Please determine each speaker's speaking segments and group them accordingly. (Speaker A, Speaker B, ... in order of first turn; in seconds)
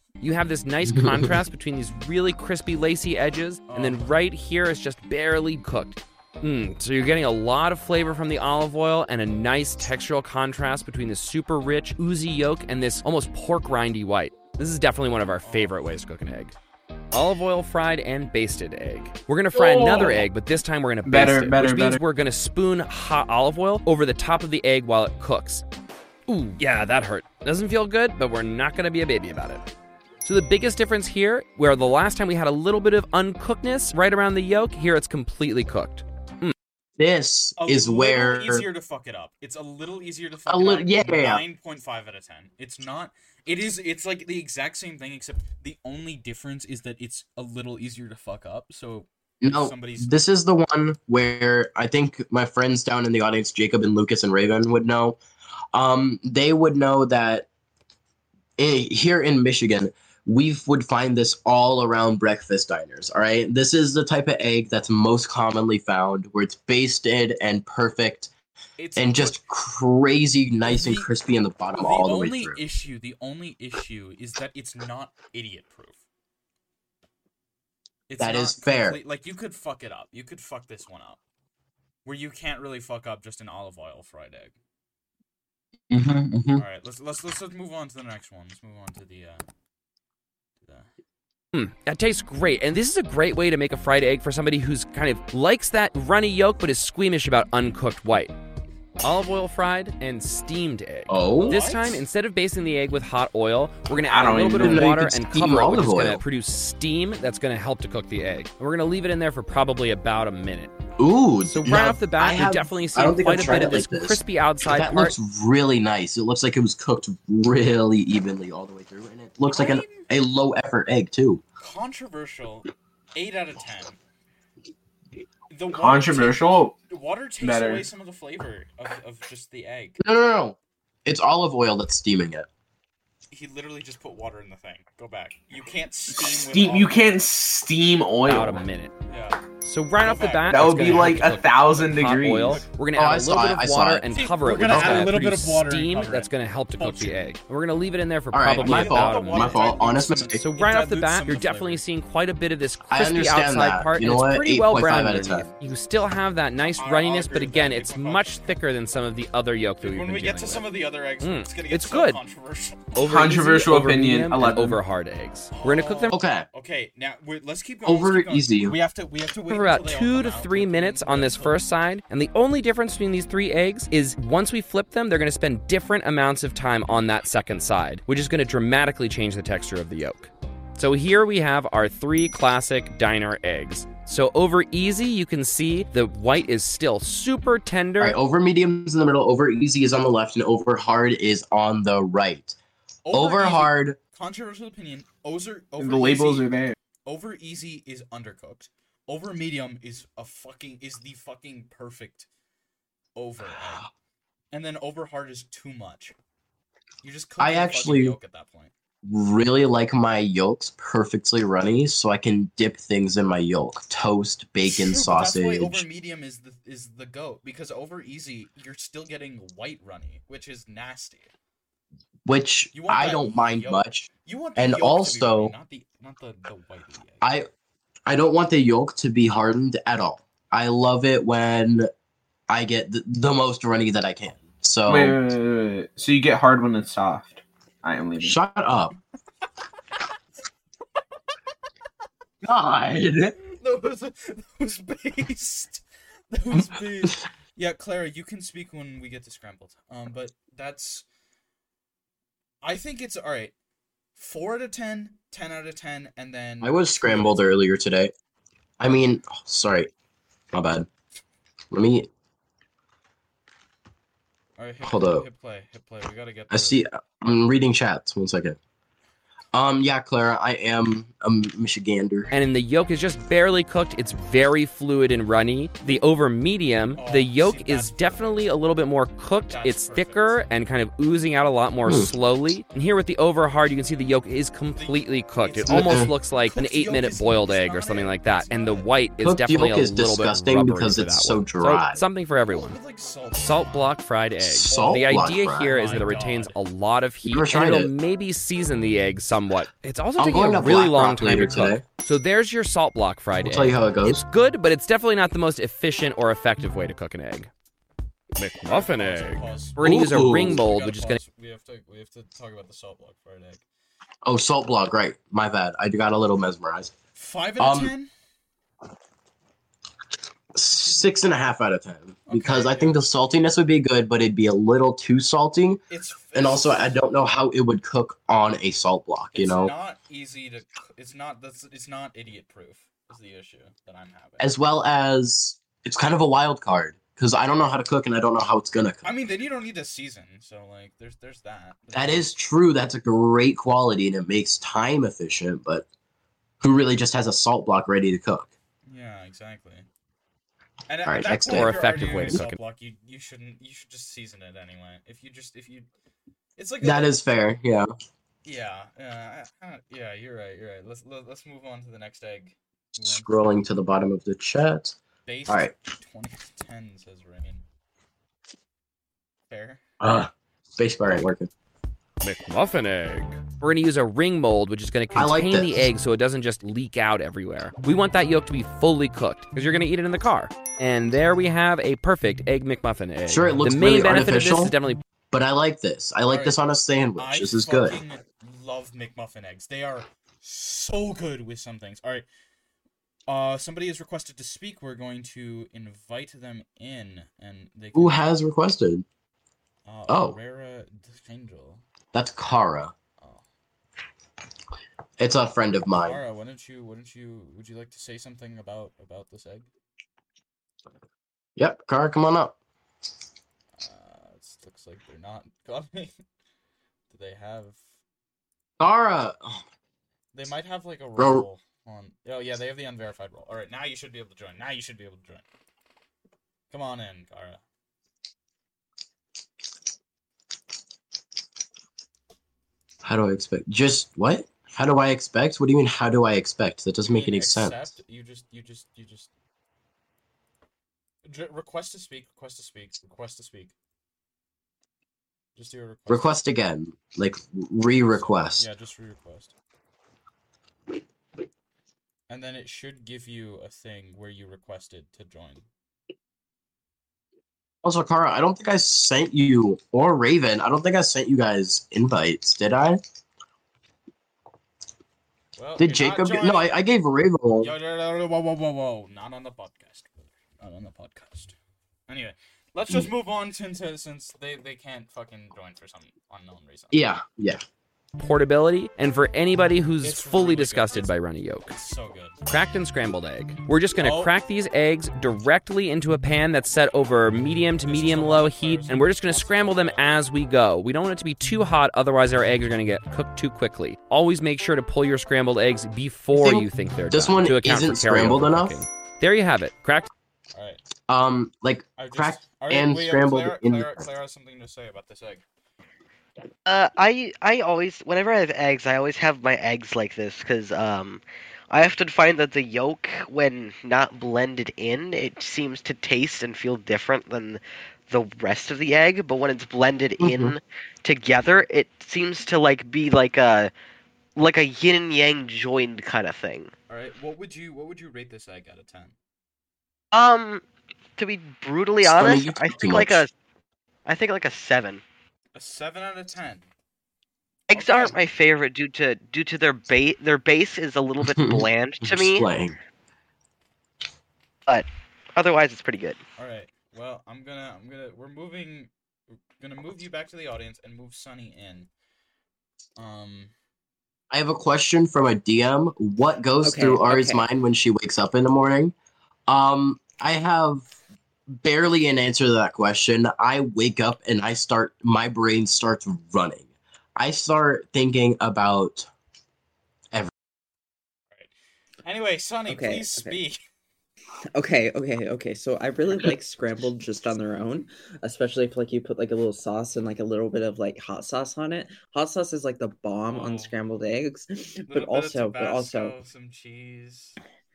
Speaker A: 0.2-16.6, 17.1-25.6, 26.3-29.6, 30.2-36.5, 91.5-98.4, 99.0-110.8, 111.4-115.1, 138.2-138.9, 139.6-149.6, 150.3-160.7, 161.2-162.2, 163.0-166.1, 169.5-188.2, 272.3-292.8, 293.4-307.5, 308.4-311.2, 351.5-352.6, 372.2-385.0, 478.2-481.8, 482.5-500.1
Speaker B: 0.8-1.3, 37.0-38.7, 40.5-41.4, 49.4-55.2, 55.7-57.5, 58.6-68.3, 69.0-72.6, 78.2-79.0, 85.9-86.6, 101.1-101.6, 104.4-106.2, 111.0-121.4, 130.0-132.5, 143.0-145.1, 148.3-150.4, 152.9-155.5, 166.1-166.5, 167.8-168.8, 188.0-192.6, 193.1-194.0, 207.4-208.2, 209.1-215.8, 222.2-225.5, 227.2-227.5, 228.1-231.9, 232.5-235.2, 238.2-238.9, 242.4-243.4, 246.5-247.2, 256.6-258.1, 258.8-259.9, 260.5-260.9, 261.7-262.1, 264.8-265.2, 266.5-268.6, 269.5-272.3, 285.7-286.1, 289.2-292.0, 294.4-295.7, 297.2-297.9, 300.2-301.8, 303.4-304.2, 309.8-310.6, 314.2-316.9, 317.6-317.9, 320.5-325.8, 326.3-329.7, 334.4-339.1, 341.9-345.9, 346.6-348.5, 351.1-352.4, 356.8-357.9, 363.0-365.0, 365.5-365.7, 370.0-371.5, 375.1-375.9, 383.3-384.8, 385.3-388.0, 397.9-399.0, 400.1-400.4, 402.1-402.9, 405.2-406.2, 411.6-412.5, 418.8-419.6, 421.2-421.4, 433.0-437.9, 446.1-448.7, 457.8-463.0, 465.8-467.7, 476.9-477.6, 496.3-498.8, 501.1-504.0, 520.2-520.6, 532.0-533.2, 541.2-542.8, 554.3-558.9, 559.5-560.8, 561.6-569.1
Speaker C: 3.7-4.1, 15.4-16.0, 37.6-50.1, 68.8-69.4, 70.7-71.1, 71.8-76.0, 78.1-81.2, 82.0-84.5, 86.6-89.4, 90.6-90.9, 101.4-102.1, 119.5-120.1, 121.6-124.0, 125.5-130.0, 133.3-137.2, 139.1-139.4, 140.0-141.4, 144.1-147.3, 148.6-151.8, 156.8-158.6, 159.8-162.9, 165.5-171.6, 193.0-196.5, 197.0-202.3, 203.2-203.9, 204.5-206.1, 207.0-208.7, 214.6-221.3, 222.7-227.2, 243.4-251.0, 252.6-253.5, 254.2-257.4, 264.6-266.9, 277.0-278.4, 279.5-280.4, 284.8-288.9, 292.5-293.9, 294.7-296.6, 308.7-313.6, 317.1-318.1, 320.8-321.1, 322.3-323.1, 325.9-327.0, 329.3-334.4, 339.0-342.3, 348.9-349.9, 350.9-355.9, 356.6-357.1, 358.4-363.3, 365.2-367.6, 369.5-369.8, 386.3-386.6, 387.2-392.2, 393.3-398.3, 399.9-401.8, 403.2-403.4, 406.0-409.7, 413.8-416.1, 417.1-417.8, 420.3-425.4, 426.7-427.6, 437.0-439.3, 441.2-443.7, 445.6-446.4, 448.1-449.5, 452.3-455.6, 465.6-466.8, 467.6-471.5, 472.1-477.1, 480.0-481.1, 481.7-482.4, 484.0-484.3, 487.8-490.1, 500.5-500.8, 502.0-505.4, 526.9-529.1, 535.5-536.7, 537.7-538.1, 546.4-548.9, 549.6-551.9, 553.0-553.5, 572.0-573.6, 583.2-583.7, 584.9-587.4
Speaker D: 19.5-20.2, 21.1-22.0, 104.1-104.9, 125.7-126.8, 127.4-127.9, 136.1-138.6, 140.5-142.6, 163.0-164.8, 195.8-196.8, 234.9-238.4
Speaker E: 506.6-523.7, 524.4-526.7, 530.1-530.6, 531.2-533.3, 534.1-535.0, 537.7-542.5, 544.7-546.2
Speaker F: 556.6-557.5, 572.7-573.4, 574.5-586.1